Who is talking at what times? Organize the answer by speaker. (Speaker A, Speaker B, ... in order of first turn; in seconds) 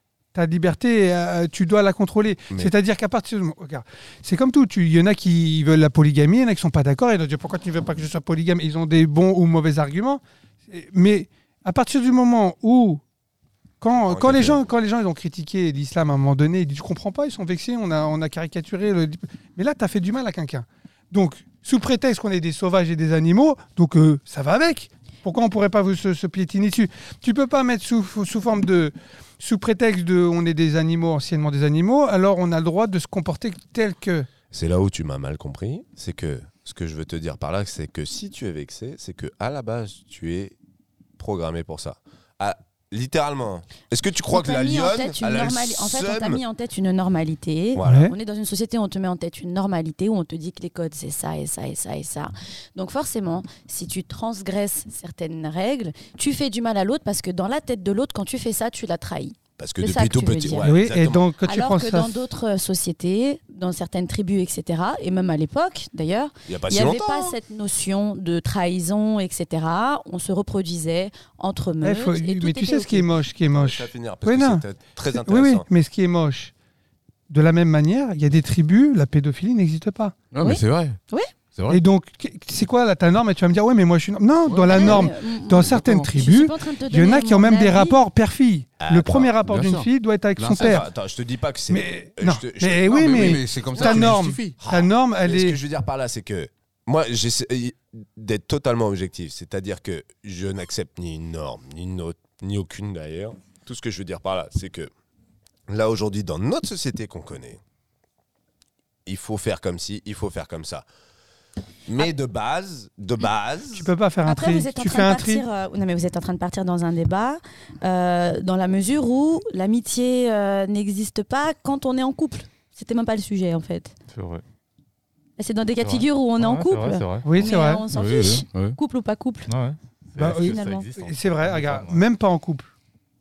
Speaker A: 0.3-13.0, 13.8-34.3, 47.8-48.1, 60.6-62.2, 71.8-76.5, 77.3-80.1, 81.7-90.9, 91.7-95.6, 113.7-115.4, 127.2-127.8, 130.2-132.7
Speaker B: 14.0-14.6, 34.5-40.6, 41.2-46.4, 47.8-48.1, 59.6-61.2, 66.5-67.3, 73.5-75.6, 88.8-89.3, 90.5-104.9, 105.7-107.6, 109.0-110.8, 111.9-113.9
Speaker C: 44.3-60.8, 61.4-73.1, 80.4-81.3, 84.7-88.0, 114.2-123.9, 125.4-129.5, 130.4-130.8
Speaker D: 80.3-81.0, 81.5-81.8, 84.5-86.0, 89.5-89.9, 90.4-90.8, 92.9-94.6, 127.9-128.8
Speaker E: 124.1-124.4, 125.8-127.3, 129.5-132.0